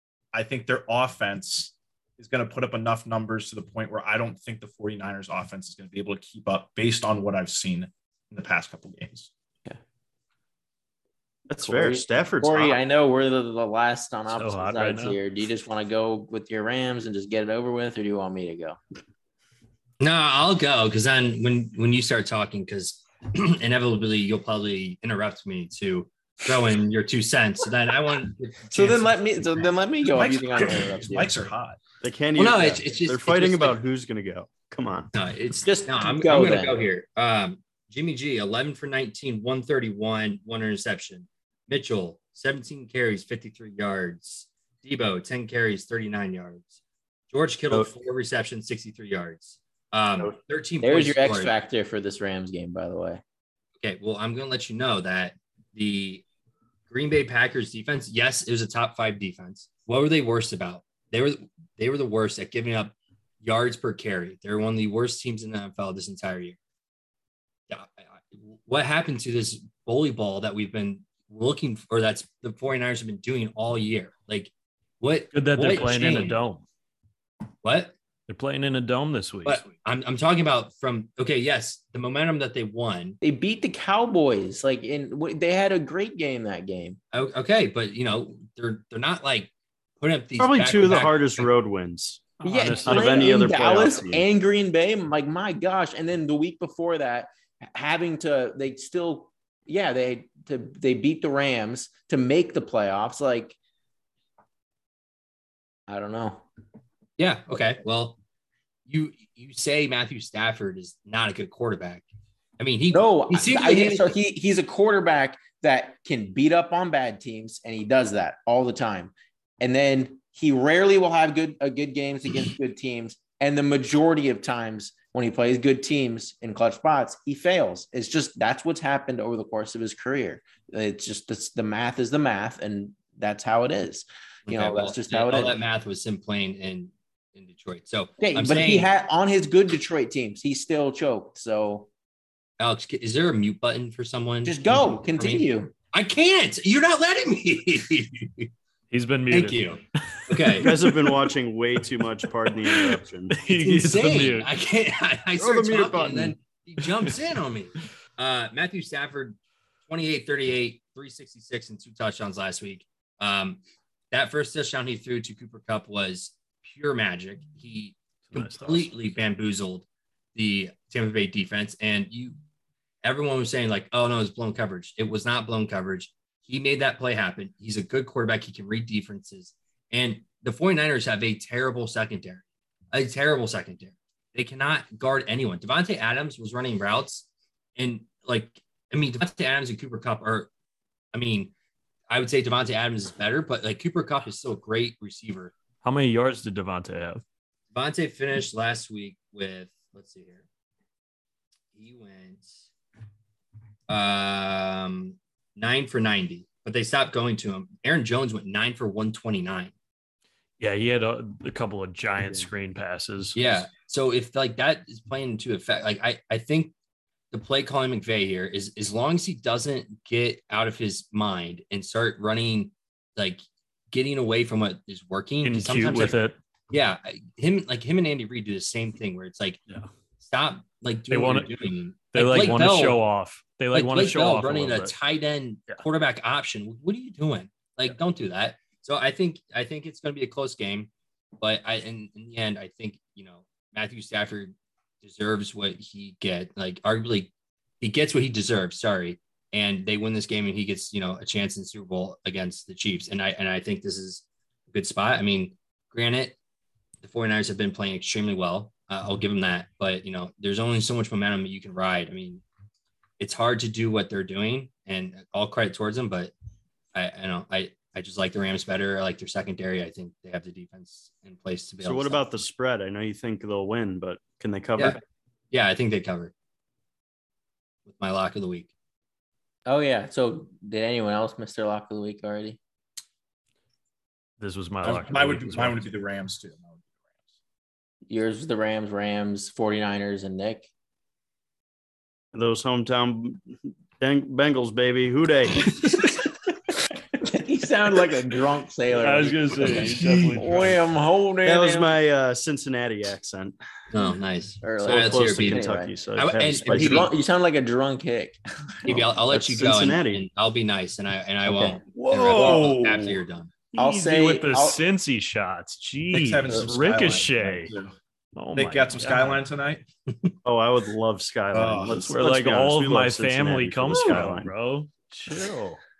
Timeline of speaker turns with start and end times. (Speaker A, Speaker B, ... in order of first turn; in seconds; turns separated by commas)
Speaker A: 0.3-9.3, Speaker B: 11.5-12.8, Speaker C: 11.6-18.8, Speaker D: 14.3-15.2, Speaker E: 20.0-29.6, Speaker C: 28.7-31.4, Speaker A: 30.1-31.8, Speaker B: 32.0-35.1, Speaker E: 32.4-33.8, Speaker E: 35.1-46.8, Speaker C: 35.6-36.7, Speaker E: 47.3-51.5, Speaker C: 50.8-53.2, Speaker E: 53.8-56.2, Speaker E: 56.9-66.6, Speaker E: 67.7-76.3, Speaker D: 75.3-76.6, Speaker E: 77.6-77.9, Speaker D: 78.3-79.6, Speaker E: 79.4-83.2, Speaker C: 83.2-87.0, Speaker E: 87.1-91.5, Speaker B: 90.4-92.3, Speaker D: 92.4-93.5, Speaker C: 92.4-103.5, Speaker B: 92.8-94.2, Speaker C: 105.9-106.5, Speaker E: 107.2-108.2, Speaker E: 108.9-112.0, Speaker E: 112.6-114.1, Speaker C: 112.9-135.6, Speaker E: 134.4-138.9, Speaker C: 138.2-141.9, Speaker E: 142.6-148.5, Speaker C: 144.4-145.7, Speaker D: 148.9-151.2, Speaker E: 149.3-150.7, Speaker B: 150.6-153.3, Speaker D: 152.6-154.5, Speaker E: 153.4-172.4, Speaker B: 155.4-156.3, Speaker D: 168.3-168.9, Speaker E: 173.0-190.5, Speaker E: 191.1-191.5, Speaker E: 192.1-195.5, Speaker D: 195.8-197.2, Speaker E: 197.7-200.4, Speaker E: 201.7-202.5, Speaker E: 203.9-209.7, Speaker D: 210.6-213.4, Speaker E: 213.3-216.7, Speaker E: 217.3-226.2, Speaker D: 225.4-226.3, Speaker E: 226.7-229.6, Speaker E: 230.2-233.0, Speaker D: 231.1-231.5, Speaker D: 232.1-234.9, Speaker E: 233.7-256.4, Speaker E: 257.0-262.4, Speaker E: 263.2-266.3, Speaker E: 266.9-272.2, Speaker B: 271.8-275.0, Speaker E: 275.5-276.3, Speaker E: 277.9-278.7, Speaker C: 279.6-282.6, Speaker D: 284.4-285.8, Speaker A: 284.8-286.9, Speaker C: 288.1-290.7, Speaker B: 292.3-295.8, Speaker C: 297.2-301.9, Speaker D: 298.9-300.8, Speaker A: 299.9-300.4, Speaker B: 301.4-303.5, Speaker E: 303.9-307.1, Speaker C: 304.6-305.9, Speaker B: 304.8-307.1, Speaker C: 306.7-309.1, Speaker E: 308.8-313.5, Speaker B: 309.3-310.2, Speaker B: 311.6-312.9, Speaker A: 312.3-312.8, Speaker D: 312.3-312.7, Speaker D: 313.7-317.7, Speaker C: 313.8-314.8, Speaker A: 316.1-317.9, Speaker D: 318.4-319.4, Speaker A: 318.5-319.8, Speaker B: 320.4-324.5, Speaker A: 321.5-322.1, Speaker D: 321.9-325.8